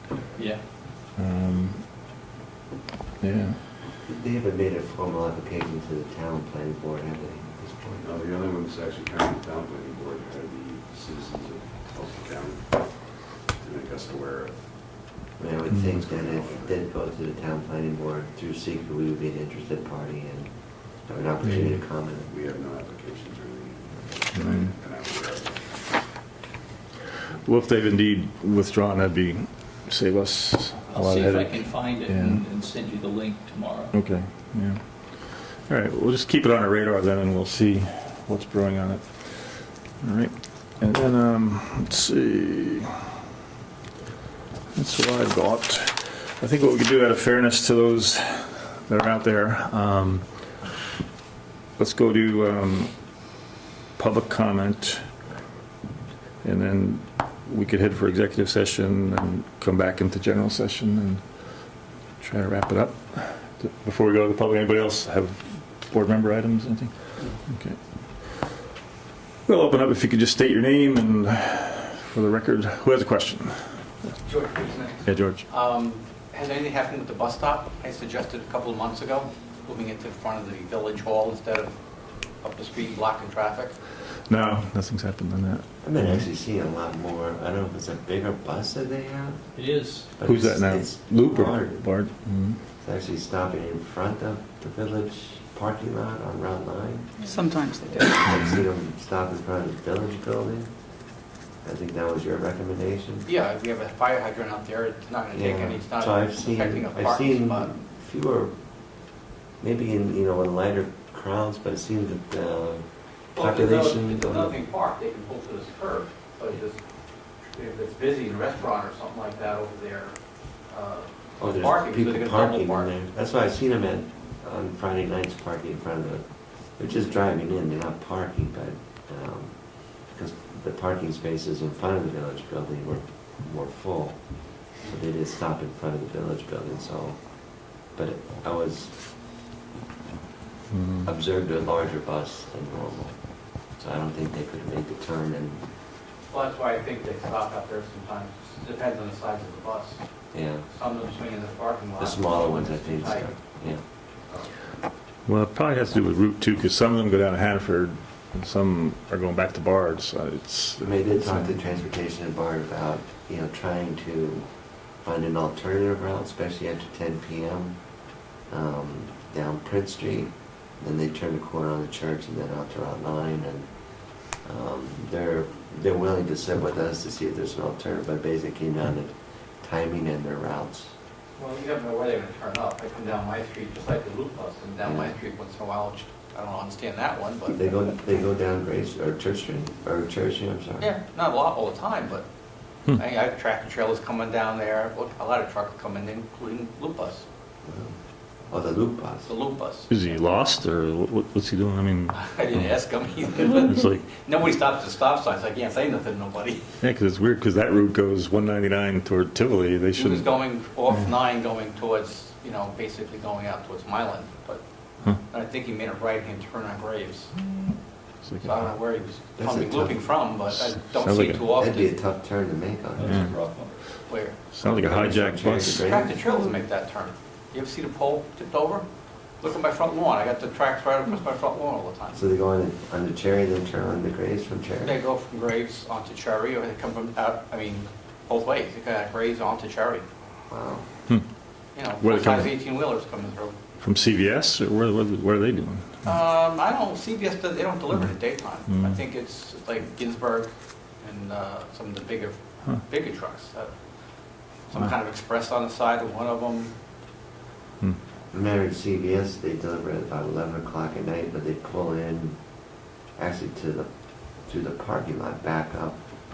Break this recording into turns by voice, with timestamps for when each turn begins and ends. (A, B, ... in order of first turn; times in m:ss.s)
0:00.3-0:00.6 A
0:01.2-0:01.8 B
0:03.2-0:03.6 B
0:04.1-0:08.0 C
0:08.0-0:14.6 D
0:15.4-0:22.3 C
0:15.7-0:16.8 D
0:22.3-0:25.9 D
0:27.4-0:32.4 B
0:30.9-0:33.9 A
0:33.9-0:34.8 B
0:35.7-0:43.0 B
0:44.7-0:50.2 B
0:51.8-0:52.9 B
0:54.0-0:55.1 B
0:56.4-1:01.3 B
1:02.2-1:07.8 B
1:09.4-1:13.8 B
1:14.2-1:21.8 E
1:15.0-1:15.4 B
1:22.4-1:23.8 E
1:24.3-1:26.2 B
1:25.8-1:29.4 C
1:29.5-1:30.1 A
1:30.1-1:31.8 C
1:30.2-1:32.6 B
1:32.8-1:37.1 C
1:37.3-1:38.2 E
1:38.0-1:40.7 C
1:41.6-1:43.3 C
1:43.2-1:47.7 E
1:45.3-1:48.5 C
1:49.6-1:54.5 C
1:53.3-1:56.8 E
1:57.5-2:00.1 E
2:00.7-2:02.9 E
2:01.4-2:17.2 C
2:17.9-2:19.0 C
2:20.7-2:21.1 B
2:21.0-2:23.2 C
2:23.8-2:25.7 C
2:26.3-2:30.0 E
2:30.3-2:30.6 C
2:30.7-2:33.4 E
2:32.0-2:33.8 C
2:35.2-2:41.5 B
2:40.8-2:44.5 C
2:45.0-2:47.8 C
2:48.5-2:53.7 C
2:54.4-3:00.9 C
3:01.4-3:07.6 E
3:04.8-3:05.1 C
3:07.5-3:10.9 C
3:10.8-3:12.2 E
3:12.9-3:17.2 E
3:17.6-3:18.0 C
3:18.5-3:19.3 C
3:19.2-3:20.1 E
3:19.9-3:22.6 B
3:22.1-3:26.6 E
3:23.6-3:24.0 B
3:26.8-3:30.3 B
3:29.9-3:34.6 E
3:35.2-3:37.3 E
3:38.2-3:38.6 B
3:38.4-3:41.9 E
3:39.4-3:40.1 C
3:40.7-3:41.4 B
3:41.5-3:43.3 C
3:43.0-3:43.7 A
3:44.1-3:44.4 E
3:44.5-3:45.9 B
3:44.6-3:46.2 C
3:45.7-3:48.8 E
3:49.4-3:52.2 E
3:52.1-3:55.0 C
3:54.8-4:00.0 E
4:00.5-4:00.9 C
4:01.7-4:03.6 E
4:02.0-4:02.5 B
4:03.8-4:06.1 B
4:06.0-4:13.7 E
4:08.7-4:09.0 B
4:14.7-4:16.7 E
4:18.3-4:22.4 C
4:23.2-4:23.9 C
4:24.4-4:26.0 C